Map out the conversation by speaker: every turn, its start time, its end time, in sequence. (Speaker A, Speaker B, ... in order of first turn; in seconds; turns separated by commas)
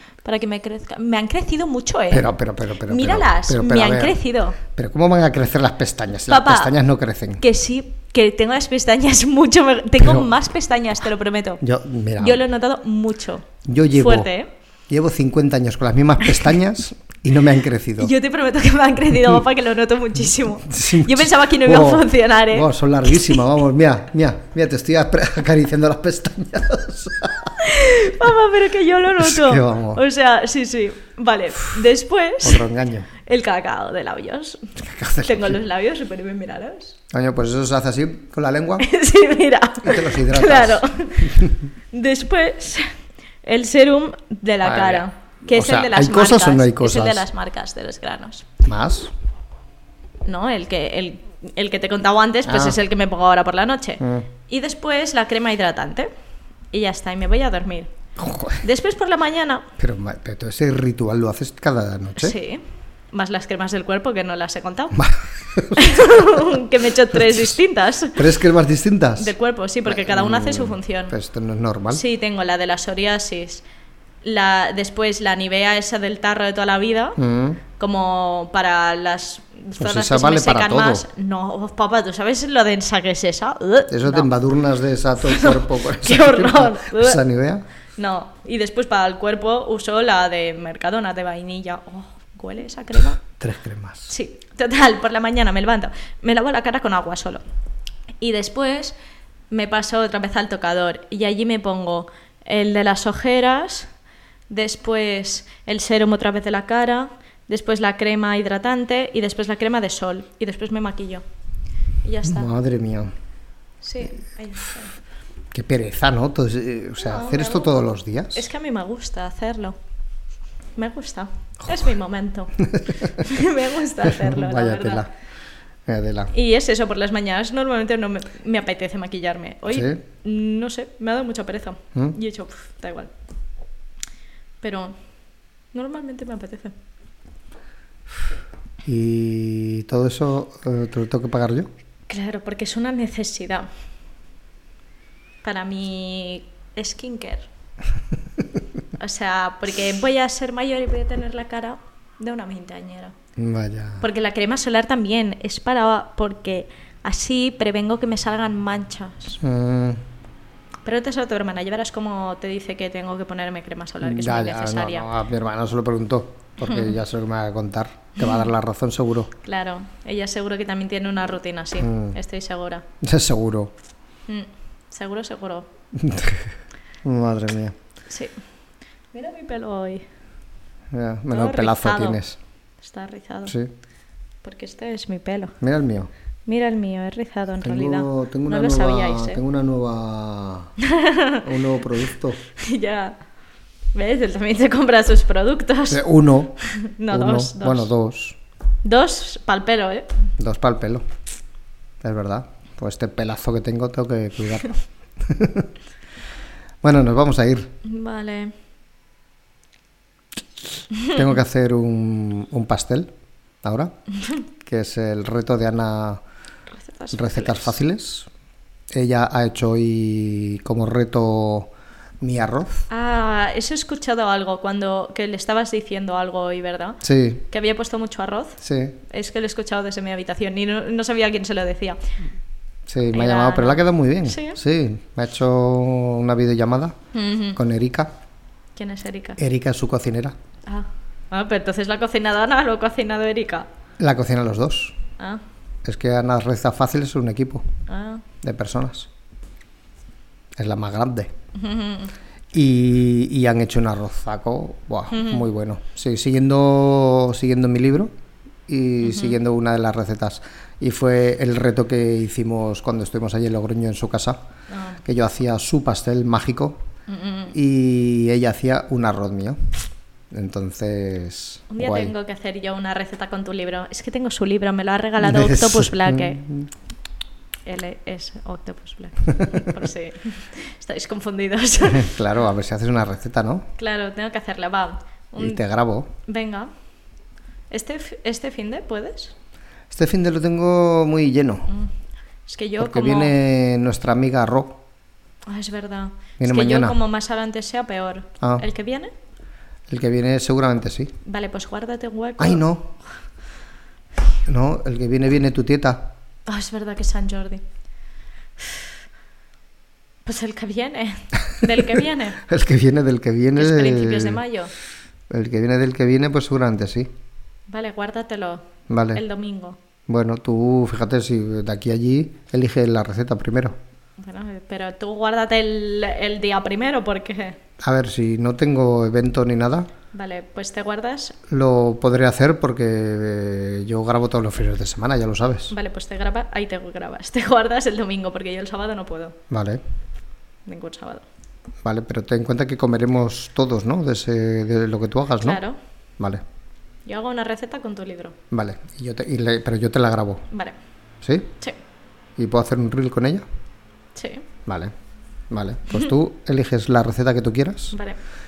Speaker A: 0.2-2.3, Speaker B: 2.1-7.4, Speaker A: 2.9-4.6, Speaker A: 6.3-6.7, Speaker A: 7.4-11.6, Speaker B: 10.0-10.3, Speaker B: 11.6-12.4, Speaker A: 12.2-14.5, Speaker B: 13.7-14.3, Speaker B: 14.9-18.1, Speaker A: 18.0-23.4, Speaker B: 20.7-27.6, Speaker A: 27.6-32.7, Speaker B: 29.2-30.0, Speaker B: 32.4-33.1, Speaker A: 33.2-37.0, Speaker B: 34.8-35.6, Speaker B: 37.1-38.9, Speaker A: 38.8-42.9, Speaker B: 39.8-41.6, Speaker A: 43.4-48.5, Speaker B: 44.6-47.3, Speaker B: 48.6-49.1, Speaker A: 50.2-56.1, Speaker B: 52.5-52.8, Speaker B: 54.0-54.3, Speaker A: 56.7-57.9, Speaker B: 58.2-58.6, Speaker A: 58.6-59.7, Speaker B: 59.8-62.4, Speaker A: 62.2-65.0, Speaker B: 64.9-66.6, Speaker A: 65.7-68.2, Speaker B: 67.1-67.5, Speaker B: 68.1-69.3, Speaker A: 69.2-71.2, Speaker B: 69.9-72.0, Speaker A: 71.9-73.6, Speaker A: 74.2-77.2, Speaker B: 77.2-77.6, Speaker A: 77.8-84.3, Speaker B: 79.8-81.0, Speaker B: 83.9-87.7, Speaker A: 85.2-87.2, Speaker A: 88.0-93.2, Speaker B: 93.2-94.1, Speaker A: 94.1-97.4, Speaker A: 98.2-99.0, Speaker A: 99.5-103.9, Speaker A: 104.5-111.2, Speaker A: 112.0-112.5, Speaker B: 112.2-113.1, Speaker A: 113.8-115.0, Speaker B: 115.5-118.5, Speaker A: 117.0-117.8, Speaker A: 118.3-119.8, Speaker A: 120.8-125.0, Speaker B: 122.6-123.1, Speaker B: 124.0-125.1, Speaker B: 125.9-126.3, Speaker A: 126.3-133.1, Speaker B: 129.7-130.0, Speaker A: 134.6-135.0, Speaker A: 135.7-136.7, Speaker B: 138.8-141.7, Speaker A: 142.1-143.7, Speaker A: 145.4-147.5, Speaker A: 149.0-153.1, Speaker B: 153.4-154.0, Speaker A: 154.0-159.4, Speaker B: 159.4-160.0, Speaker A: 160.8-165.1, Speaker B: 164.0-169.3, Speaker A: 166.6-166.9, Speaker A: 169.4-172.8, Speaker B: 171.8-172.2, Speaker B: 173.0-173.7, Speaker A: 174.3-175.7, Speaker B: 175.9-176.5, Speaker B: 177.0-177.8, Speaker A: 178.1-178.3, Speaker A: 179.1-180.1, Speaker B: 180.9-182.4, Speaker A: 181.3-182.2, Speaker A: 182.8-183.6, Speaker A: 184.4-185.6, Speaker B: 185.6-186.1, Speaker A: 186.5-189.4, Speaker B: 187.6-190.7, Speaker A: 190.8-191.5, Speaker B: 191.4-192.4, Speaker A: 192.5-193.2, Speaker A: 193.9-196.1, Speaker B: 195.9-196.6, Speaker A: 196.6-197.9, Speaker B: 197.1-198.4, Speaker A: 198.8-200.1, Speaker B: 200.4-201.0, Speaker B: 202.0-205.7, Speaker B: 206.8-207.7, Speaker A: 207.8-208.5, Speaker B: 211.0-213.1, Speaker B: 213.6-213.9, Speaker B: 214.6-216.2, Speaker A: 216.8-217.8, Speaker B: 217.1-218.3, Speaker B: 218.9-222.9, Speaker A: 222.9-227.0, Speaker B: 227.0-227.4, Speaker A: 227.5-232.0, Speaker B: 228.6-228.9, Speaker B: 232.9-237.0, Speaker A: 233.1-234.6, Speaker A: 237.1-237.6, Speaker B: 237.6-238.1, Speaker A: 238.8-239.4, Speaker B: 239.4-240.3, Speaker A: 240.7-243.7, Speaker B: 244.0-245.0, Speaker B: 245.8-247.7, Speaker A: 247.9-248.2, Speaker B: 248.4-249.1, Speaker B: 250.6-251.3, Speaker A: 251.5-252.1, Speaker B: 252.5-258.1, Speaker A: 255.1-255.5, Speaker B: 258.7-264.4, Speaker A: 259.0-259.4, Speaker A: 264.7-265.0, Speaker B: 265.0-266.8, Speaker A: 267.1-267.6, Speaker B: 267.5-269.6, Speaker B: 270.3-272.1, Speaker A: 271.7-276.4, Speaker B: 275.2-276.7, Speaker A: 277.7-282.2, Speaker B: 281.8-283.7, Speaker A: 283.8-285.6, Speaker B: 285.4-286.1, Speaker A: 286.3-286.7, Speaker A: 287.7-289.4, Speaker B: 289.9-291.7, Speaker A: 292.5-293.3, Speaker B: 292.8-294.8, Speaker A: 295.5-299.1, Speaker B: 296.4-297.0, Speaker B: 299.9-301.1, Speaker A: 301.2-302.6, Speaker B: 302.4-302.9, Speaker B: 304.5-306.1, Speaker A: 306.5-307.6, Speaker A: 310.3-312.4, Speaker B: 311.7-314.4, Speaker A: 313.6-314.7, Speaker B: 315.3-317.1, Speaker A: 317.7-319.8, Speaker B: 318.9-319.2, Speaker B: 320.1-323.8, Speaker A: 324.2-327.6, Speaker B: 327.8-329.9, Speaker A: 330.1-331.4, Speaker B: 331.5-335.7, Speaker A: 335.7-339.4, Speaker B: 339.5-339.8, Speaker A: 340.7-341.3, Speaker B: 341.8-345.6, Speaker A: 345.4-345.8, Speaker A: 347.1-348.4, Speaker B: 348.5-350.5, Speaker A: 350.5-350.8, Speaker B: 351.2-351.5, Speaker B: 352.4-353.4, Speaker A: 354.1-354.4, Speaker B: 354.7-354.9, Speaker B: 355.5-358.0, Speaker A: 357.9-358.2